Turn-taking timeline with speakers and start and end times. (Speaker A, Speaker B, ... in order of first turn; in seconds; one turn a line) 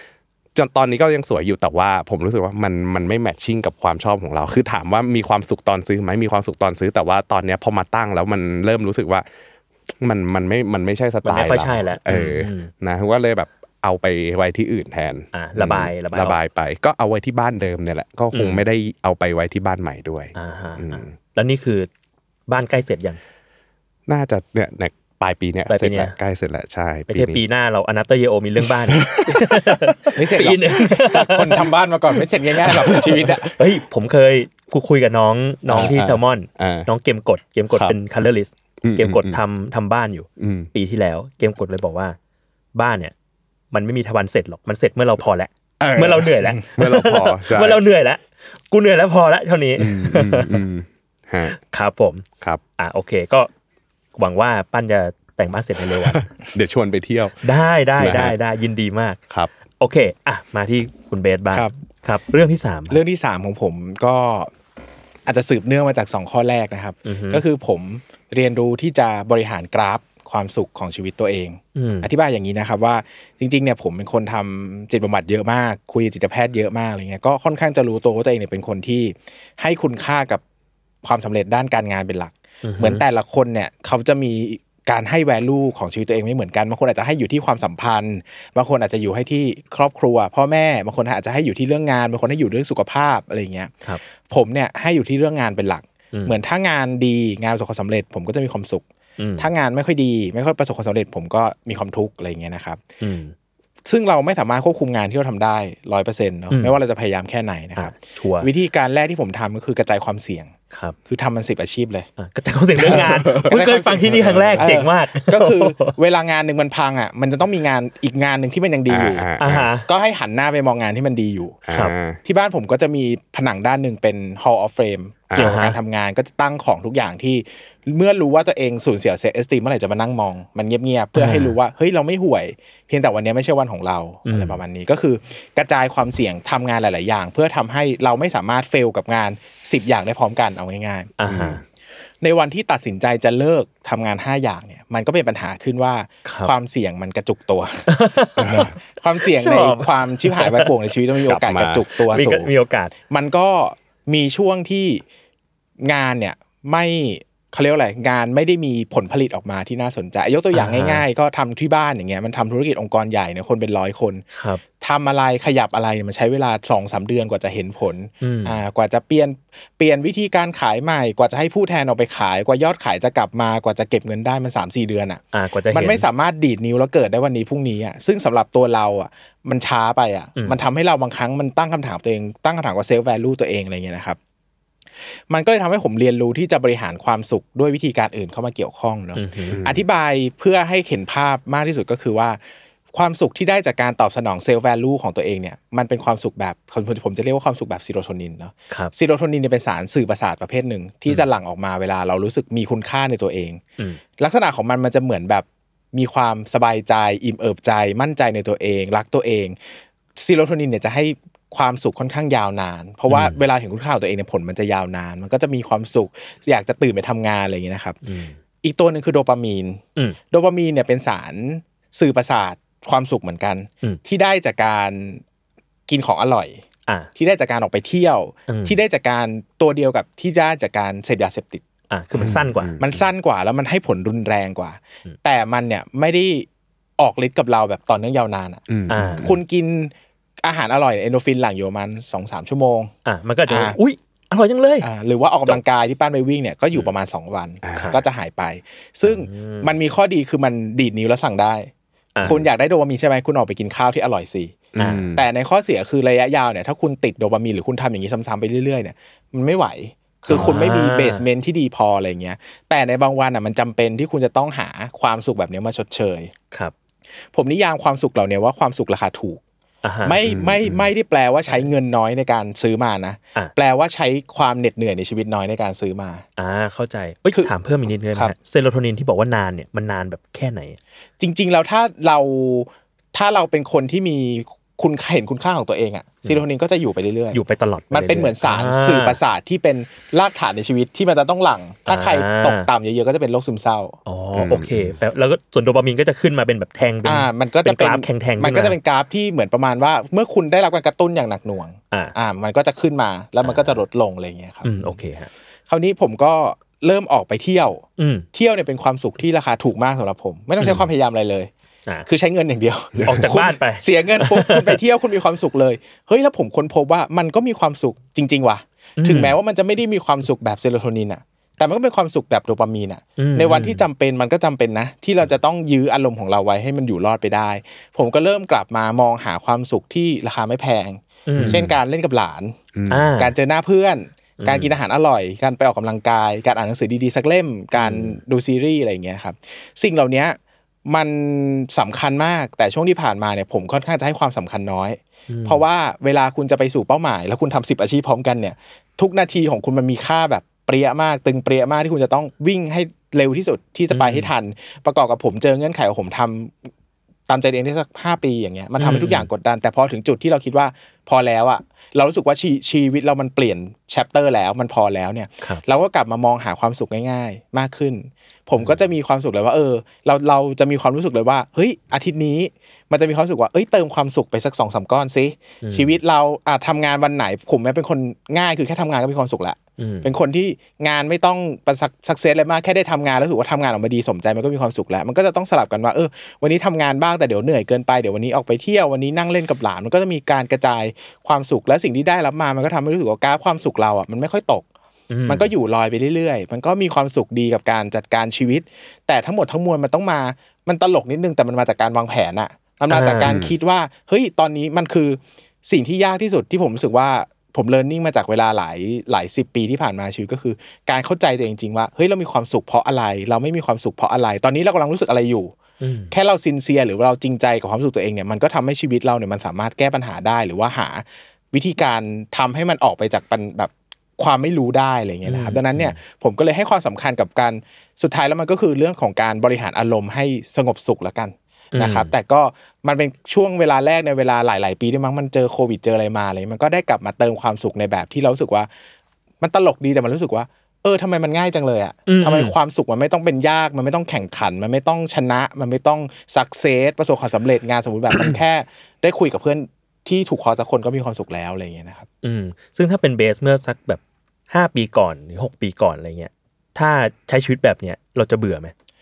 Speaker A: 0.5-9.2
Speaker A: 10.0-21.1
Speaker B: 11.2-12.7
Speaker B: 15.3-16.4
Speaker B: 18.3-18.6
Speaker B: 20.4-21.9
Speaker B: 22.5-23.2
Speaker A: 24.1-27.4
Speaker B: 25.7-26.1
Speaker B: 27.1-31.7
Speaker A: 28.9-29.7
Speaker C: 30.1-33.5
Speaker A: 32.7-33.3
Speaker B: 33.5-42.2
Speaker A: 35.7-36.9
Speaker A: 38.8-39.4
Speaker A: 40.4-40.7
Speaker B: 42.7-43.1
Speaker B: 43.7-50.6
Speaker C: 45.8-46.6
Speaker A: 46.8-47.8
Speaker A: 49.8-51.5
Speaker B: 51.5-52.2
Speaker B: 52.8-53.5
Speaker B: 54.1-56.3
Speaker A: 56.0-57.4
Speaker B: 57.4-59.2
Speaker A: 58.0-58.3
Speaker B: 59.8-63.0
Speaker C: 62.9-64.5
Speaker C: 65.2-80.4
Speaker B: 67.0-67.4
Speaker B: 71.7-72.1
Speaker C: 81.0-98.8
Speaker B: 82.6-83.0
Speaker B: 99.2-99.5
Speaker C: 99.4-102.8
Speaker B: 103.0-103.3
Speaker C: 103.8-110.5
Speaker B: 106.5-106.8
Speaker B: 107.8-108.5
Speaker C: 111.1-112.1
Speaker B: 112.2-116.0
Speaker A: 112.8-113.5
Speaker C: 112.8-119.3
Speaker A: 114.1-114.7
Speaker A: 118.9-119.7
Speaker B: 119.4-119.8
Speaker C: 119.8-121.6
Speaker A: 121.7-122.2
Speaker B: 121.7-121.9
Speaker C: 122.2-141.1
Speaker A: 125.3-125.6
Speaker B: 125.4-125.8
Speaker B: 131.1-131.5
Speaker B: 134.2-134.6
Speaker B: 141.2-141.6
Speaker A: 141.3-141.6
Speaker C: 142.2-147.9
Speaker B: 146.2-146.5
Speaker B: 147.9-150.7
Speaker A: 148.4-148.7
Speaker C: 148.4-152.5
Speaker A: 151.2-151.8
Speaker B: 152.0-152.9
Speaker C: 153.1-155.0
Speaker C: 155.8-164.2
Speaker B: 160.5-161.0
Speaker B: 164.3-164.6
Speaker C: 164.8-184.2
Speaker B: 168.2-168.6
Speaker B: 175.3-176.1
Speaker C: 185.3-192.4
Speaker B: 189.1-189.6
Speaker A: 189.5-189.8
Speaker C: 192.9-203.6
Speaker C: 204.2-209.6
Speaker C: 210.2-218.0
Speaker B: 213.1-213.4
Speaker B: 218.0-218.3
Speaker C: 218.6-225.2
Speaker C: 225.9-226.6
Speaker C: 227.2-231.6
Speaker B: 228.5-228.8
Speaker B: 231.9-232.8
Speaker A: 232.2-233.0
Speaker C: 232.2-236.4
Speaker C: 237.0-242.9
Speaker A: 238.7-239.3
Speaker B: 238.9-239.3
Speaker B: 243.1-244.9
Speaker C: 243.5-243.8
Speaker C: 244.8-251.7
Speaker A: 247.6-247.9
Speaker B: 247.7-248.0
Speaker B: 249.0-249.7
Speaker C: 252.2-266.3
Speaker A: 254.7-255.2
Speaker B: 254.8-255.1
Speaker A: 260.3-260.6
Speaker B: 260.3-261.2
Speaker C: 267.3-269.4
Speaker B: 269.8-270.2
Speaker C: 270.0-276.2
Speaker A: 270.2-270.8
Speaker B: 276.4-280.8
Speaker C: 281.2-287.4
Speaker B: 287.3-289.2
Speaker C: 287.9-294.0
Speaker B: 291.9-292.7
Speaker B: 294.1-298.8
Speaker A: 294.4-294.9
Speaker C: 297.0-304.9
Speaker B: 303.4-303.8
Speaker B: 304.6-305.3
Speaker C: 305.7-311.5
Speaker B: 308.0-308.2
Speaker B: 310.6-310.8
Speaker C: 312.1-332.6
Speaker B: 313.0-314.8
Speaker B: 319.0-319.4
Speaker B: 323.2-323.8
Speaker B: 331.3-331.6
Speaker A: 331.4-331.8
Speaker A: 332.8-333.1
Speaker B: 332.9-333.3
Speaker C: 333.2-356.6
Speaker B: 334.4-334.7
Speaker B: 337.7-338.2
Speaker B: 345.3-345.6
Speaker B: 353.9-354.3
Speaker C: 357.3-394.6
Speaker B: 358.8-359.3
Speaker B: 368.6-368.9
Speaker B: 375.6-376.0
Speaker B: 379.8-380.1
Speaker B: 395.1-395.5
Speaker C: 395.3-415.6
Speaker B: 402.9-403.4
Speaker A: 403.2-403.5
Speaker B: 415.8-416.1
Speaker C: 416.1-438.7
Speaker B: 425.2-426.0
Speaker B: 431.7-432.1
Speaker C: 439.4-452.1
Speaker B: 442.1-442.5
Speaker B: 452.2-458.7